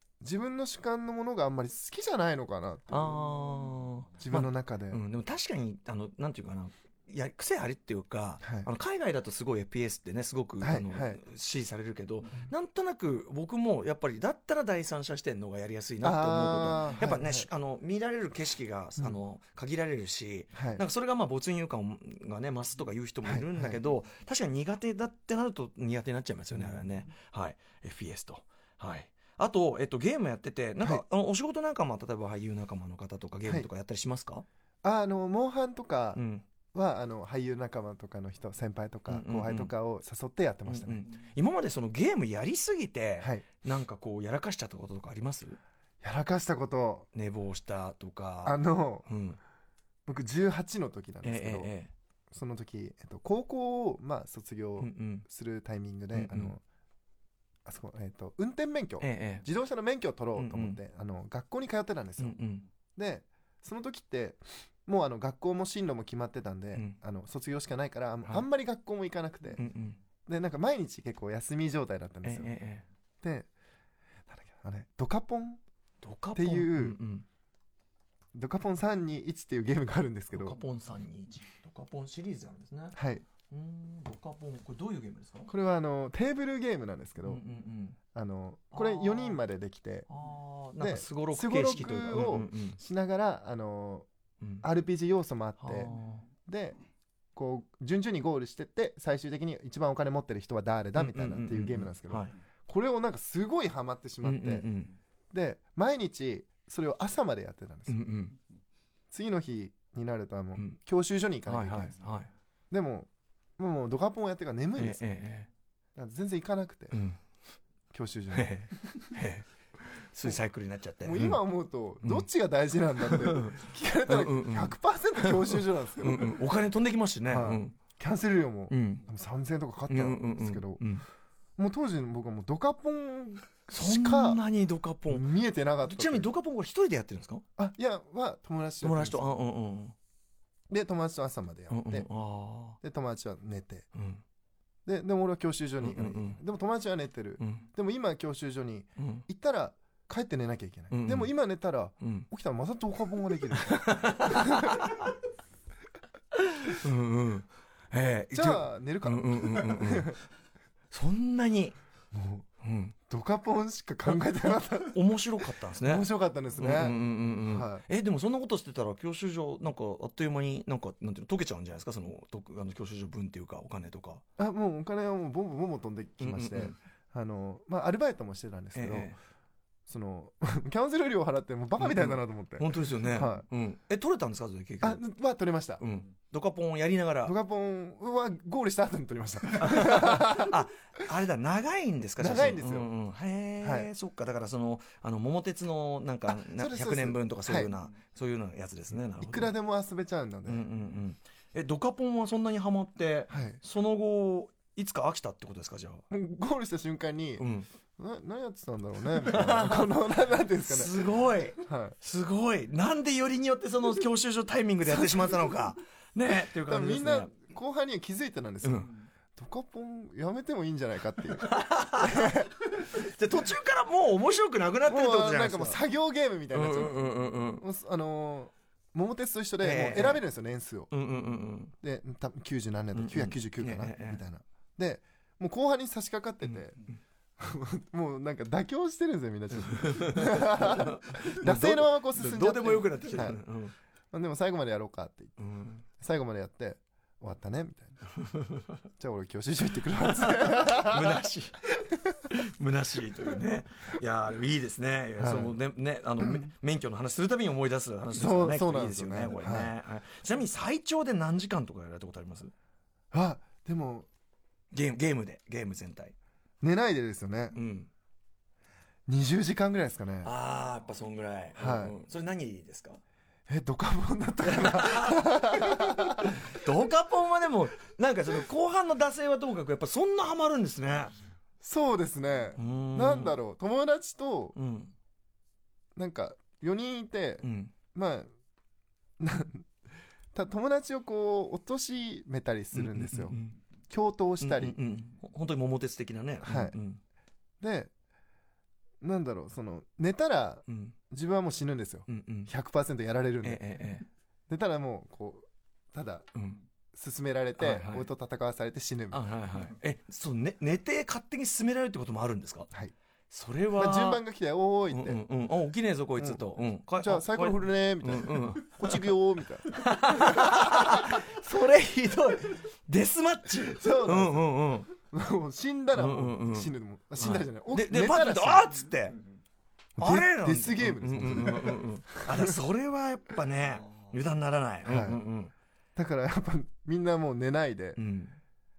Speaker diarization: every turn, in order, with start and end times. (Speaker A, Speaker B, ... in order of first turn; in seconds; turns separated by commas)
Speaker A: 0.2-3.2, Speaker B: 2.9-34.4, Speaker A: 4.2-5.0, Speaker A: 8.4-8.7, Speaker A: 10.6-11.2, Speaker A: 16.0-17.5, Speaker A: 20.5-20.8, Speaker A: 23.2-23.8, Speaker A: 34.8-36.2, Speaker B: 36.1-36.4, Speaker A: 36.7-41.0, Speaker B: 39.1-39.7, Speaker B: 40.7-45.6, Speaker A: 43.2-43.4, Speaker A: 46.0-47.1, Speaker B: 47.1-49.4, Speaker A: 48.4-49.0, Speaker A: 50.0-51.7, Speaker B: 51.2-51.9, Speaker A: 52.3-56.6, Speaker B: 54.8-55.2, Speaker B: 56.1-56.5, Speaker A: 57.6-62.4, Speaker B: 59.0-59.4, Speaker B: 60.3-60.8, Speaker B: 62.2-62.6, Speaker A: 63.0-69.6, Speaker B: 69.6-70.0, Speaker A: 70.2-72.5, Speaker B: 72.2-72.8, Speaker A: 73.2-73.5, Speaker A: 74.3-75.6, Speaker B: 76.0-77.2, Speaker A: 76.3-77.0, Speaker A: 78.3-80.6, Speaker B: 80.3-83.0, Speaker A: 82.9-83.2, Speaker B: 83.5-85.5, Speaker A: 85.5-87.4, Speaker B: 87.2-88.0, Speaker A: 88.1-90.1, Speaker B: 88.7-89.4, Speaker B: 90.1-92.8, Speaker A: 90.8-94.1, Speaker A: 94.6-95.9, Speaker B: 95.6-96.2, Speaker A: 96.5-96.8, Speaker A: 97.3-104.7, Speaker B: 101.0-102.3, Speaker B: 104.2-104.9, Speaker A: 105.3-108.0, Speaker B: 107.9-108.4, Speaker A: 109.1-112.0, Speaker B: 111.5-112.3, Speaker A: 112.7-115.0, Speaker B: 114.8-115.5, Speaker A: 115.9-116.9, Speaker B: 116.9-117.2, Speaker A: 117.9-119.1, Speaker B: 118.3-119.5, Speaker B: 120.1-121.4, Speaker A: 121.0-126.4, Speaker B: 123.0-127.8, Speaker A: 127.3-130.8, Speaker B: 128.7-129.1, Speaker B: 129.9-131.0, Speaker A: 131.6-134.4, Speaker B: 133.7-135.3, Speaker A: 135.1-136.3, Speaker B: 135.8-137.4, Speaker A: 137.6-139.3, Speaker B: 138.8-139.9, Speaker A: 140.7-142.1, Speaker B: 141.7-142.8, Speaker A: 142.8-143.9, Speaker B: 143.9-144.2, Speaker A: 144.8-154.9, Speaker B: 145.8-146.4, Speaker B: 147.4-147.7, Speaker B: 149.0-149.2, Speaker B: 150.9-151.3, Speaker B: 152.0-152.3, Speaker B: 153.5-155.1, Speaker B: 156.3-160.2, Speaker A: 158.3-160.2, Speaker B: 160.9-161.8, Speaker A: 162.1-162.4, Speaker B: 162.6-162.9, Speaker A: 163.1-165.0, Speaker B: 164.1-174.2, Speaker A: 165.8-167.8, Speaker A: 174.4-179.1, Speaker B: 176.2-176.8, Speaker B: 178.7-179.2, Speaker A: 179.9-183.4, Speaker B: 181.8-185.0, Speaker A: 184.8-185.8, Speaker B: 185.8-187.3, Speaker A: 187.2-190.6, Speaker B: 189.6-199.5, Speaker A: 192.2-192.9, Speaker A: 193.6-193.9, Speaker A: 196.3-197.7, Speaker A: 199.2-200.6, Speaker B: 200.5-206.0, Speaker A: 203.3-203.6, Speaker A: 206.1-207.4, Speaker B: 207.4-207.7, Speaker A: 208.0-211.1, Speaker B: 209.2-210.0, Speaker B: 210.6-217.3, Speaker A: 211.6-211.9, Speaker A: 214.9-215.3, Speaker A: 216.6-222.5, Speaker B: 218.6-218.9, Speaker B: 221.4-225.8, Speaker A: 224.9-230.9, Speaker B: 226.5-227.6, Speaker B: 229.6-230.2, Speaker B: 230.9-231.7, Speaker A: 231.8-236.8, Speaker B: 232.9-234.2, Speaker A: 237.4-243.4, Speaker B: 239.7-243.7, Speaker A: 244.1-245.4, Speaker B: 245.4-245.8, Speaker A: 245.9-248.0, Speaker B: 248.2-248.6, Speaker A: 249.0-251.2, Speaker B: 250.0-251.6, Speaker B: 252.3-262.5, Speaker A: 255.2-255.6, Speaker A: 258.1-259.7, Speaker A: 263.1-264.1, Speaker B: 264.7-266.1, Speaker A: 266.6-267.6, Speaker B: 267.5-267.9, Speaker A: 269.1-270.3, Speaker B: 270.2-273.0, Speaker A: 271.6-271.9, Speaker A: 273.5-276.3, Speaker B: 274.4-281.1, Speaker A: 281.6-284.6, Speaker B: 282.6-283.4, Speaker B: 284.6-284.9, Speaker A: 285.9-288.3, Speaker B: 287.4-287.7, Speaker A: 289.2-289.7, Speaker A: 290.3-293.4, Speaker B: 292.7-293.6, Speaker A: 293.9-294.8, Speaker B: 294.4-297.0, Speaker A: 296.4-296.8, Speaker A: 297.6-297.9, Speaker A: 299.0-303.6, Speaker B: 300.7-300.9, Speaker B: 302.1-302.5, Speaker B: 303.4-304.1, Speaker A: 304.5-306.3, Speaker B: 306.3-306.6, Speaker A: 306.9-309.2, Speaker B: 307.6-308.1, Speaker B: 309.1-312.7, Speaker B: 313.3-314.2, Speaker A: 313.7-315.2, Speaker B: 314.9-319.1, Speaker A: 316.2-316.4, Speaker A: 317.0-321.2, Speaker B: 319.7-324.9, Speaker A: 323.8-328.7, Speaker B: 325.9-329.2, Speaker A: 330.0-332.5, Speaker B: 330.0-335.5, Speaker A: 334.9-335.2, Speaker A: 335.9-338.0, Speaker B: 337.9-338.4